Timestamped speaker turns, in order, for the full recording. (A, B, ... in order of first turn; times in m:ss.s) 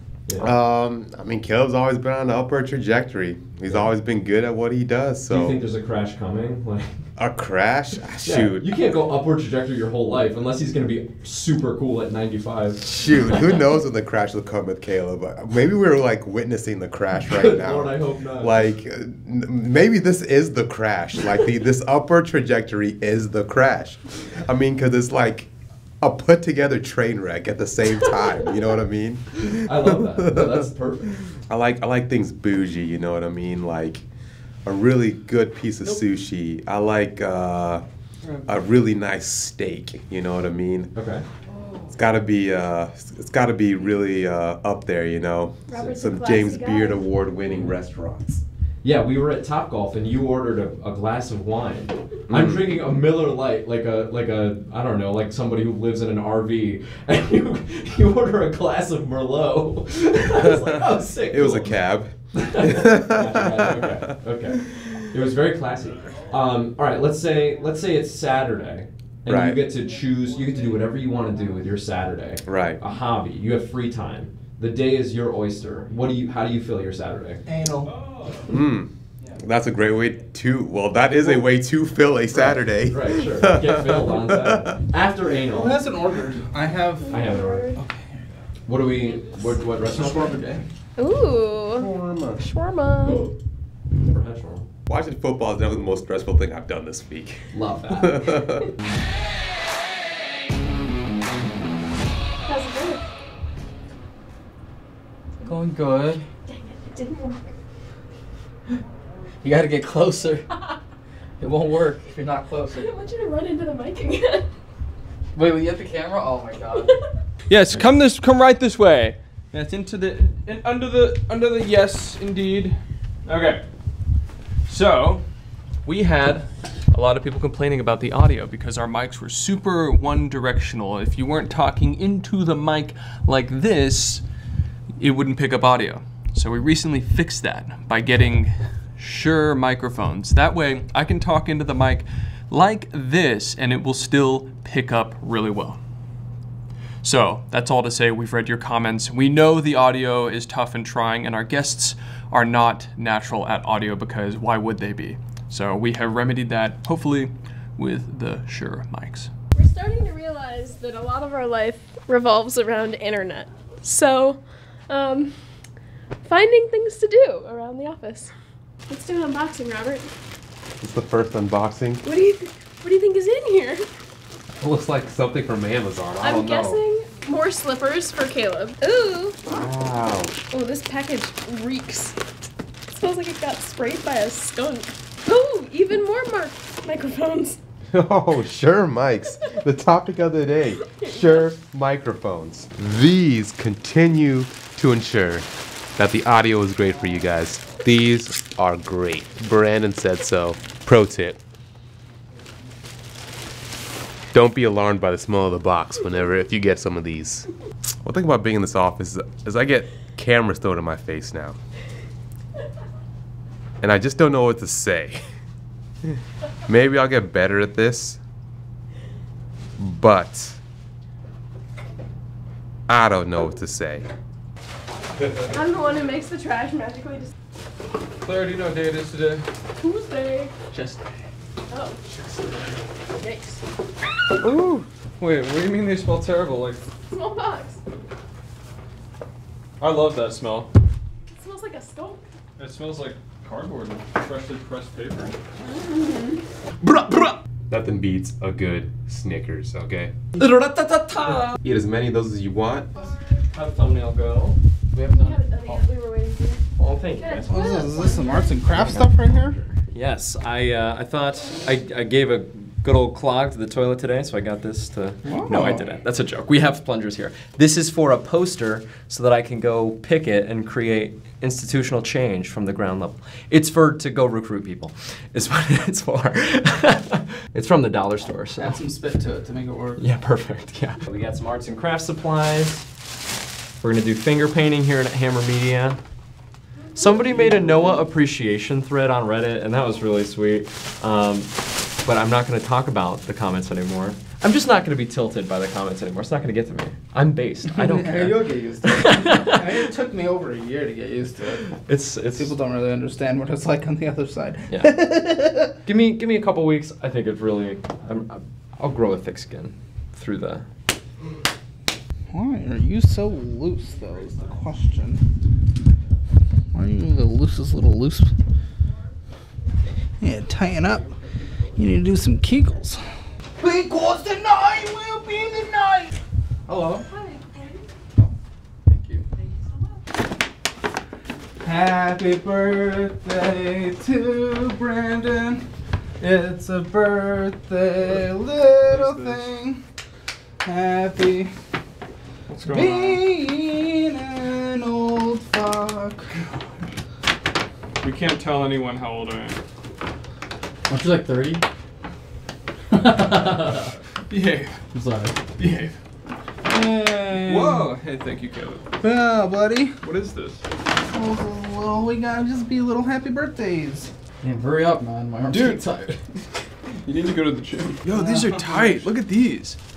0:00.3-0:00.5 A
0:00.4-0:05.6 B
0:05.3-0:07.0 A
0:07.2-0:08.7 B
0:08.2-0:12.9 A
0:12.8-0:30.6 B
0:17.3-0:18.6 A
0:29.5-0:31.3 A
0:31.2-0:34.0 B
0:34.6-0:37.8 B
0:38.4-0:40.9 B
0:40.9-0:41.2 A
0:41.9-0:48.4 B
0:45.7-0:47.1 C
0:48.8-1:17.4 A
0:52.3-0:52.8 B
1:00.4-1:04.8 B
1:05.8-1:06.7 D
1:09.3-1:09.6 B
1:12.4-1:12.8 B
1:17.4-1:17.9 E
1:17.8-1:18.6 D
1:18.5-1:24.8 B
1:22.3-1:25.8 A
1:25.5-1:28.3 E
1:27.0-1:27.8 C
1:27.1-1:27.7 A
1:28.6-1:30.4 A
1:29.8-1:30.6 E
1:31.0-1:33.3 C
1:31.7-1:32.4 B
1:33.9-1:34.7 A
1:34.9-1:38.7 B
1:37.5-1:38.6 A
1:42.4-1:43.0 C
1:45.4-1:46.2 F
1:46.4-1:47.5 C
1:49.4-1:50.5 F
1:51.4-1:52.9 F
1:52.7-1:54.5 C
1:55.3-1:56.9 F
1:56.8-1:57.1 C
1:57.5-2:03.6 D
2:04.7-2:05.3 D
2:05.8-2:14.2 D
2:15.0-2:25.8 D
2:27.0-2:39.3 D
2:39.5-2:45.4 C
2:46.2-2:48.3 C
2:48.9-2:50.1 C
2:50.8-2:52.0 B
2:52.0-2:53.8 C
2:54.6-2:56.8 B
2:56.2-2:59.4 C
2:59.4-3:00.4 B
3:00.5-3:02.2 C
3:02.9-3:07.6 C
3:07.9-3:21.4 B
3:10.8-3:11.5 C
3:24.3-3:27.5 B
3:28.0-3:31.6 B
3:33.8-3:35.3 B
3:36.6-3:38.2 B
3:39.8-3:40.6 B
3:42.9-3:44.1 B
3:45.5-3:47.3 C
3:48.2-3:49.5 D
3:49.8-3:50.5 C
3:51.7-3:52.0 C
3:52.2-3:52.6 D
3:53.2-3:53.6 C
3:55.2-3:56.8 D
3:57.1-3:57.8 C
3:59.8-4:00.7 D
4:01.3-4:02.2 C
4:02.6-4:05.4 D
4:05.6-4:06.4 C
4:07.7-4:10.1 B
4:10.4-4:11.6 A
4:11.6-4:12.9 B
4:13.0-4:13.4 C
4:13.5-4:14.6 A
4:14.9-4:15.9 F
4:15.1-4:16.6 C
4:16.8-4:17.5 A
4:17.1-4:18.7 C
4:17.5-4:19.6 E
4:19.2-4:38.8 A
4:25.2-4:25.8 E
4:38.6-4:40.0 E
4:40.0-4:42.8 A
4:43.8-4:46.0 A
4:47.0-4:59.8 A
4:57.7-5:01.7 E
5:01.6-5:02.5 A
5:02.3-5:05.7 E
5:04.7-5:05.1 A
5:05.8-5:10.7 A
5:12.3-5:15.2 E
5:16.7-5:18.3 E
5:20.2-5:21.1 E
5:21.8-5:23.0 E
5:23.6-5:26.1 E
5:26.7-5:27.1 E
5:27.0-5:27.8 C
5:28.9-5:29.2 F
5:29.4-5:30.1 C
5:31.6-5:35.6 E
5:36.2-5:39.8 E
5:38.8-5:39.5 D
5:40.6-5:41.5 E
5:42.5-5:43.2 D
5:42.6-5:46.4 E
5:48.0-5:49.6 D
5:50.9-5:51.6 F
5:52.9-5:53.7 F
5:54.3-5:54.8 D
5:54.9-5:55.4 F
5:55.6-5:56.0 D
5:56.6-5:57.9 E
5:57.4-5:58.9 D
5:59.0-6:00.0 E
6:00.0-6:00.6 D
6:01.1-6:04.1 E
6:04.4-6:06.2 F
6:05.5-6:05.8 D
6:07.0-6:09.8 D
6:08.0-6:09.1 E